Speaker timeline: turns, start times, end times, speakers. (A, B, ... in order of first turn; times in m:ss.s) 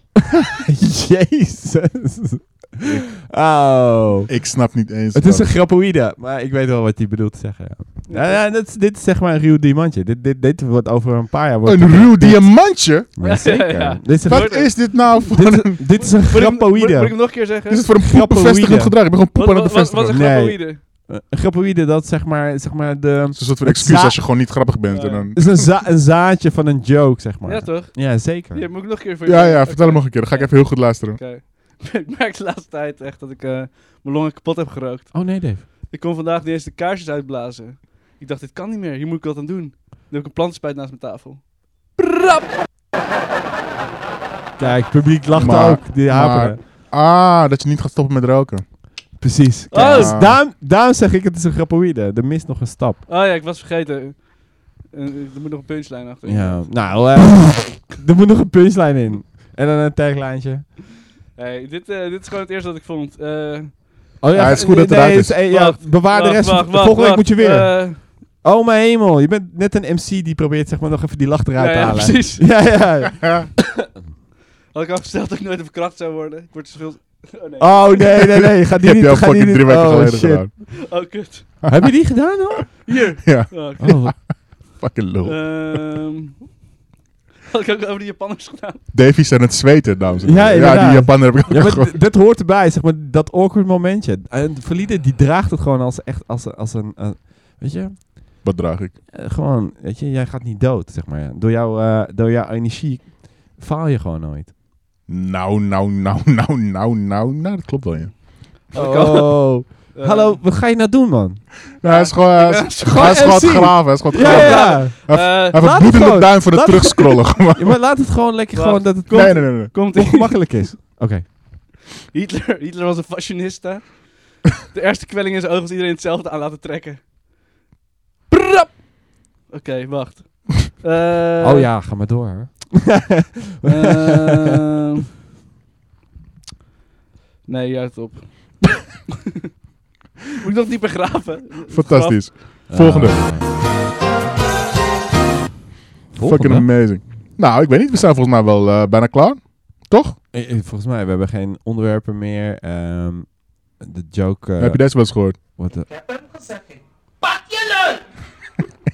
0:00.2-0:04.3 A
0:02.8-0:03.1 B
0:04.3-0:05.5 B
0:05.1-0:17.3 A
0:08.1-0:08.4 C
0:11.6-0:13.1 B
0:13.2-0:15.3 C
0:14.2-0:15.8 B
0:15.8-0:17.8 C
0:17.7-0:20.2 B
0:18.0-0:19.0 A
0:19.3-0:20.8 C
0:20.1-0:24.4 A
0:23.3-0:25.7 B
0:24.9-0:25.3 C
0:25.4-0:28.6 A
0:27.4-0:42.5 C
0:29.2-0:31.2 B
0:35.1-0:35.6 A
0:44.6-0:46.6 A
0:45.3-0:48.6 B
0:49.2-0:53.0 A
0:49.7-0:50.2 C
0:49.8-0:50.4 B
0:53.1-0:56.9 C
0:56.2-1:00.8 A
1:01.3-1:03.8 C
1:04.2-1:13.6 A
1:04.3-1:05.4 B
1:05.5-1:08.0 C
1:11.6-1:12.8 C
1:14.7-1:18.0 C
1:17.6-1:20.7 A
1:18.1-1:20.5 B
1:20.7-1:21.6 C
1:21.6-1:21.9 B
1:21.6-1:22.9 A
1:22.8-1:24.0 C
1:23.2-1:25.8 B
1:23.8-1:24.1 A
1:25.2-1:26.6 C
1:27.5-1:28.8 C
1:28.9-1:32.0 B
1:30.2-1:38.4 A
1:38.4-1:39.0 B
1:39.1-1:44.5 A
1:45.1-1:48.1 B
1:48.7-1:50.4 C
1:48.7-1:51.6 A
1:51.8-1:57.8 B
1:51.8-1:53.4 C
1:52.8-2:01.4 A
1:54.1-1:55.6 C
1:58.5-2:00.5 C
1:59.1-1:59.7 B
2:02.1-2:07.0 C
2:08.3-2:08.9 C
2:09.5-2:11.7 C
2:11.4-2:14.4 A
2:13.6-2:15.0 C
2:17.5-2:18.6 C
2:20.4-2:22.3 C
2:21.7-2:23.2 B
2:22.7-2:23.5 A
2:26.1-2:26.9 A
2:26.2-2:30.2 B
2:30.3-2:36.1 A
2:34.6-2:35.4 B